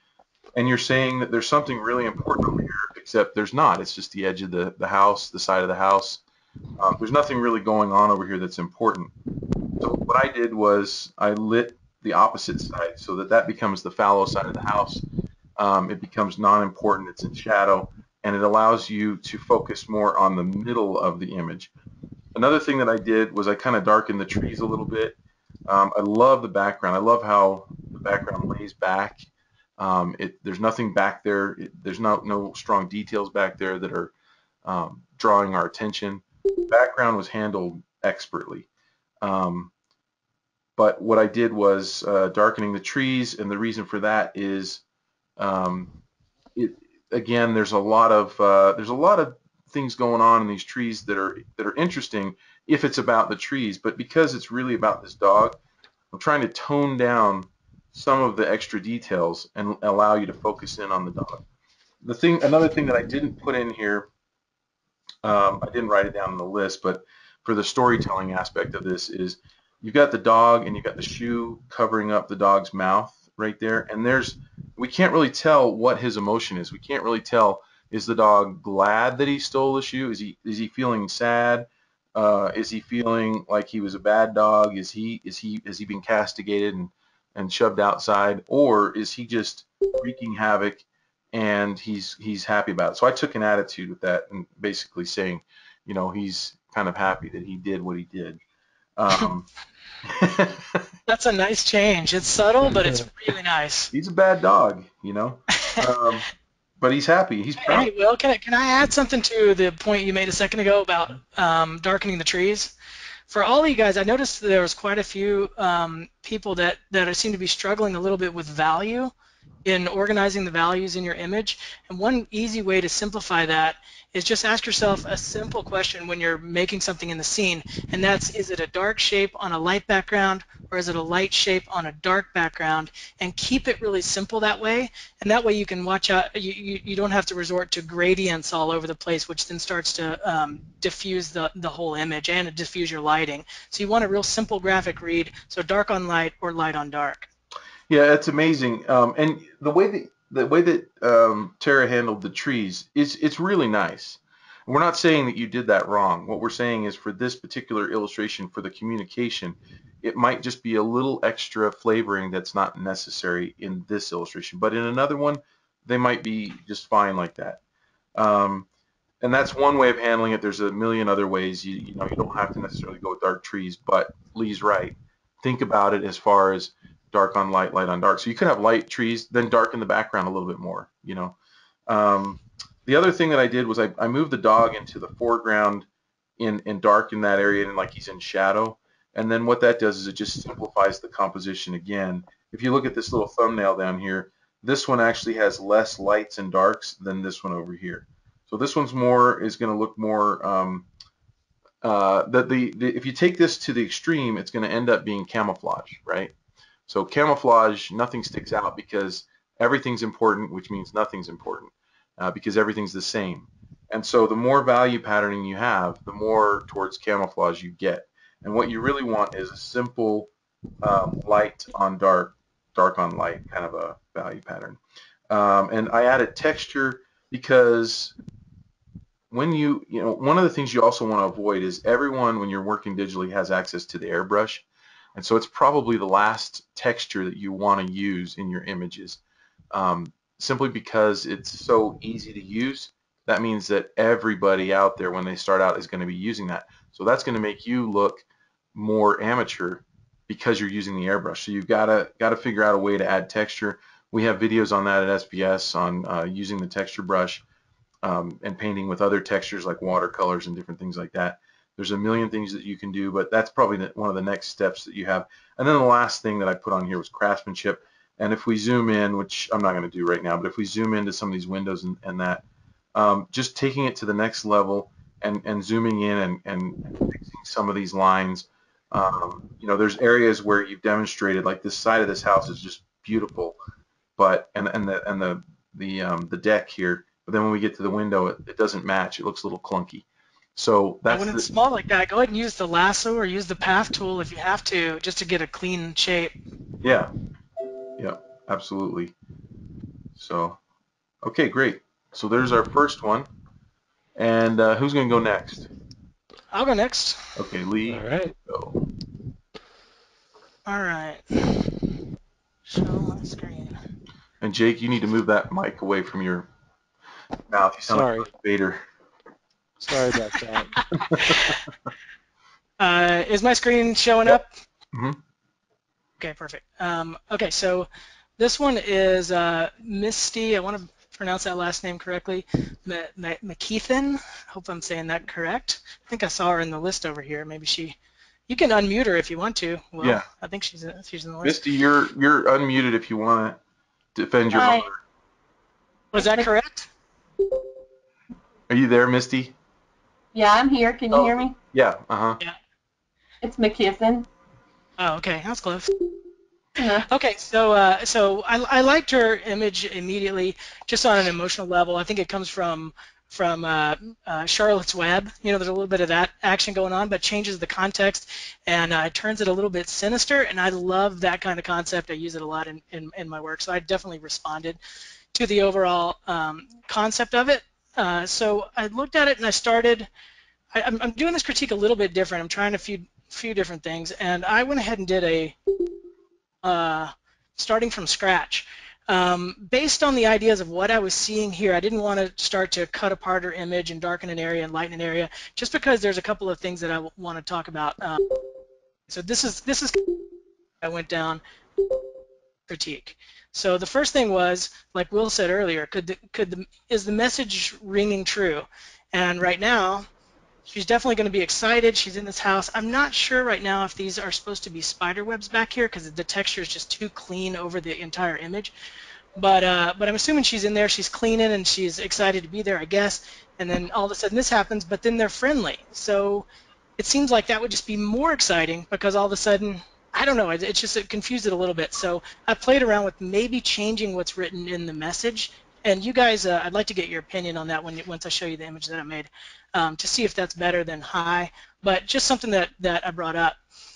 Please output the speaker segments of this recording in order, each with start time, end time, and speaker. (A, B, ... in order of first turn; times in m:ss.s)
0:00.5-0:06.2 A
0:06.8-0:09.1 A
0:09.8-0:15.0 A
0:15.6-0:21.7 A
0:22.3-0:25.2 A
0:25.7-0:29.2 A
0:29.8-0:34.1 A
0:34.6-0:38.6 A
0:39.2-0:39.7 A
0:40.8-0:44.8 A
0:45.4-0:45.9 A
0:46.5-0:55.6 A
0:56.1-1:01.4 A
1:02.0-1:04.1 A
1:05.2-1:38.4 A
1:39.0-1:39.5 A
1:40.0-1:40.9 A
1:41.1-1:43.9 B
1:42.7-1:43.0 C
1:43.9-1:46.3 A
1:46.8-1:47.9 A
1:47.6-1:52.7 B
1:53.3-1:59.1 B
1:59.6-2:27.3 B
2:27.9-2:47.6 A
2:48.2-2:48.7 A
2:49.2-3:01.4 A
3:01.9-3:05.9 A
3:06.4-3:20.9 A
3:21.8-3:26.3 A
3:26.9-3:40.3 A
3:40.8-3:44.8 A
3:45.3-3:48.1 A
3:49.3-3:59.2 A
3:59.7-4:17.4 A
4:18.0-4:32.4 A
4:32.9-4:43.6 A
4:44.2-4:51.4 A
4:51.1-4:56.3 B
4:56.8-4:57.1 A
4:58.0-4:59.1 A
5:00.2-5:00.6 A
5:01.2-5:03.3 A
5:04.2-5:05.7 A
5:06.5-5:07.4 B
5:07.4-5:08.8 A
5:07.9-5:08.4 C
5:10.6-5:11.8 B
5:12.7-5:13.8 B
5:14.4-5:16.5 A
5:17.5-5:18.8 A
5:17.9-5:18.3 C
5:19.8-5:20.8 C
5:21.1-5:21.6 B
5:21.1-5:21.4 A
5:22.8-5:24.5 B
5:24.9-5:25.2 A
5:26.2-5:38.0 B
5:38.5-5:41.6 B
5:40.0-5:40.2 A
5:41.4-5:43.6 A
5:44.1-5:45.0 A
5:44.5-5:44.9 D
5:46.1-5:46.9 B
5:46.2-5:46.5 D
5:48.7-5:49.5 A
5:50.3-5:51.5 D
5:51.1-5:52.4 A
5:53.4-5:54.3 D
5:55.0-5:55.9 B
5:56.8-5:57.0 D
5:57.0-6:14.8 B
6:15.3-6:20.1 B
6:20.7-6:25.6 B
6:26.6-6:38.4 B
6:39.1-6:40.2 B
6:40.8-6:41.4 B
6:42.7-6:50.1 B
6:50.7-6:58.7 B
6:59.4-7:06.4 B
7:07.0-7:23.6 B